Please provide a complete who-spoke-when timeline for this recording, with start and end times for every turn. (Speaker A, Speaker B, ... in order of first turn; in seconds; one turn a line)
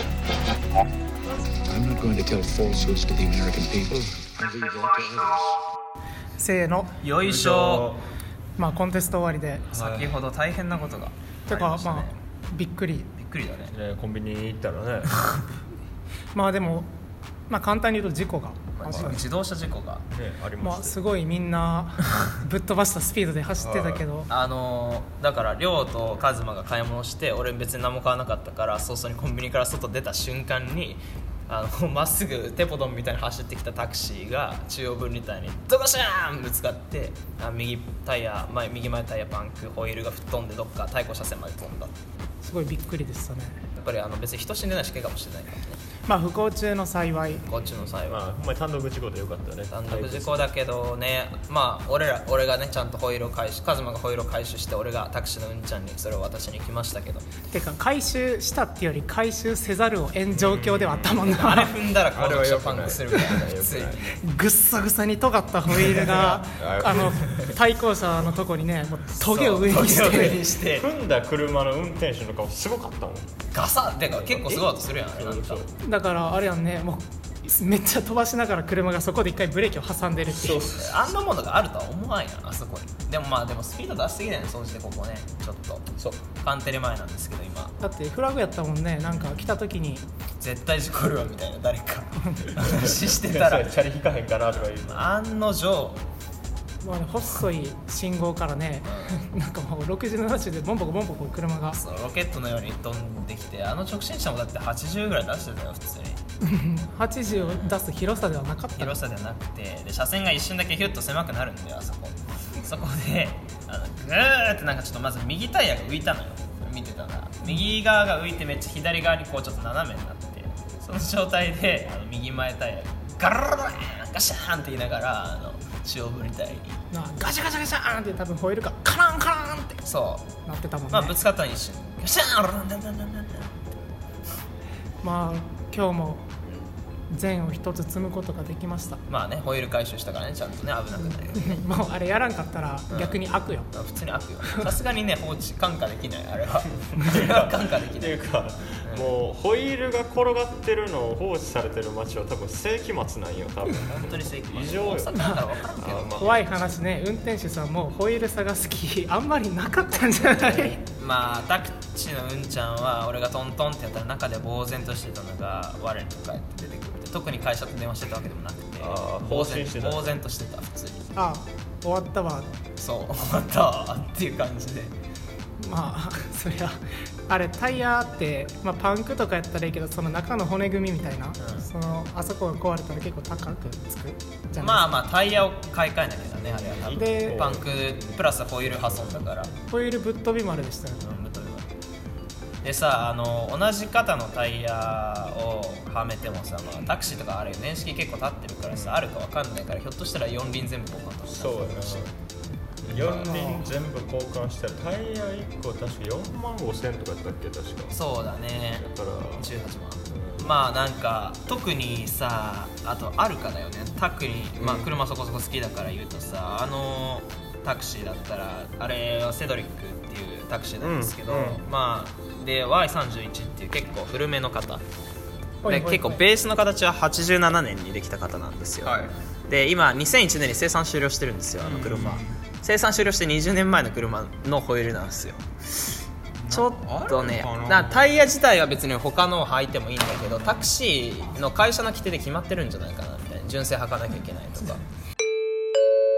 Speaker A: 1.6-5.5
Speaker B: 6.4-7.0
Speaker C: 7.0-7.9
Speaker D: 7.2-8.0
Speaker B: 8.6-9.7
Speaker C: 9.7-12.2
Speaker D: 9.7-10.2
Speaker B: 11.5-13.1
Speaker C: 13.2-13.7
Speaker D: 13.7-15.1
Speaker B: 16.3-16.9
Speaker B: 17.5-19.2
Speaker C: 18.8-20.0
Speaker D: 20.1-21.0
Speaker B: 20.6-24.3
Speaker D: 23.6-24.0
Speaker C: 24.3-41.9
Speaker B: 42.4-43.6
Speaker C: 43.7-45.8
Speaker B: 46.0-47.4
Speaker C: 47.4-48.2
Speaker D: 48.1-50.4
Speaker C: 49.7-57.3
Speaker B: 57.5-61.8
Speaker D: 60.3-61.4
Speaker C: 61.2-64.2
Speaker D: 62.1-64.0
Speaker B: 63.1-63.4
Speaker B: 64.1-70.5
Speaker D: 65.8-67.6
Speaker C: 69.2-70.9
Speaker D: 70.7-73.4
Speaker C: 73.5-75.7
Speaker D: 74.1-75.7
Speaker B: 75.8-80.7
Speaker D: 80.4-81.1
Speaker C: 80.4-87.7
Speaker B: 87.8-90.1
Speaker C: 90.4-93.7
Speaker B: 92.2-92.5
Speaker D: 92.6-95.1
Speaker C: 94.7-96.0
Speaker B: 96.8-101.8
Speaker C: 98.8-99.3
Speaker C: 101.7-106.2
Speaker B: 106.4-109.0
Speaker C: 107.3-107.8
Speaker C: 108.8-126.8
Speaker B: 126.9-129.8
Speaker C: 129.8-130.3
Speaker B: 130.4-131.2
Speaker C: 130.9-133.6
Speaker B: 135.0-136.3
Speaker B: 137.1-139.0
Speaker C: 139.1-141.6
Speaker B: 141.0-143.7
Speaker C: 142.9-143.2
Speaker C: 143.7-148.2
Speaker B: 144.4-144.7
Speaker D: 146.9-156.7
Speaker C: 148.9-149.1
Speaker C: 153.7-156.6
Speaker B: 155.1-155.5
Speaker B: 156.2-160.8
Speaker C: 160.3-171.2
Speaker D: 168.8-170.2
Speaker B: 171.1-172.5
Speaker C: 172.8-174.9
Speaker B: 175.6-185.0
Speaker C: 184.6-189.5
Speaker D: 186.4-189.3
Speaker B: 186.9-187.4
Speaker B: 189.7-191.0
Speaker C: 191.0-191.7
Speaker C: 192.6-202.0
Speaker D: 198.7-199.0
Speaker D: 201.3-202.1
Speaker D: 202.8-208.0
Speaker C: 202.9-203.2
Speaker B: 203.0-203.7
Speaker C: 207.9-224.8
Speaker D: 208.8-209.6
Speaker D: 210.1-210.7
Speaker D: 214.6-214.9
Speaker D: 220.8-221.6
Speaker B: 225.6-226.2
Speaker C: 225.7-235.9
Speaker D: 228.8-229.1
Speaker D: 231.6-232.3
Speaker D: 236.4-238.2
Speaker C: 236.5-244.8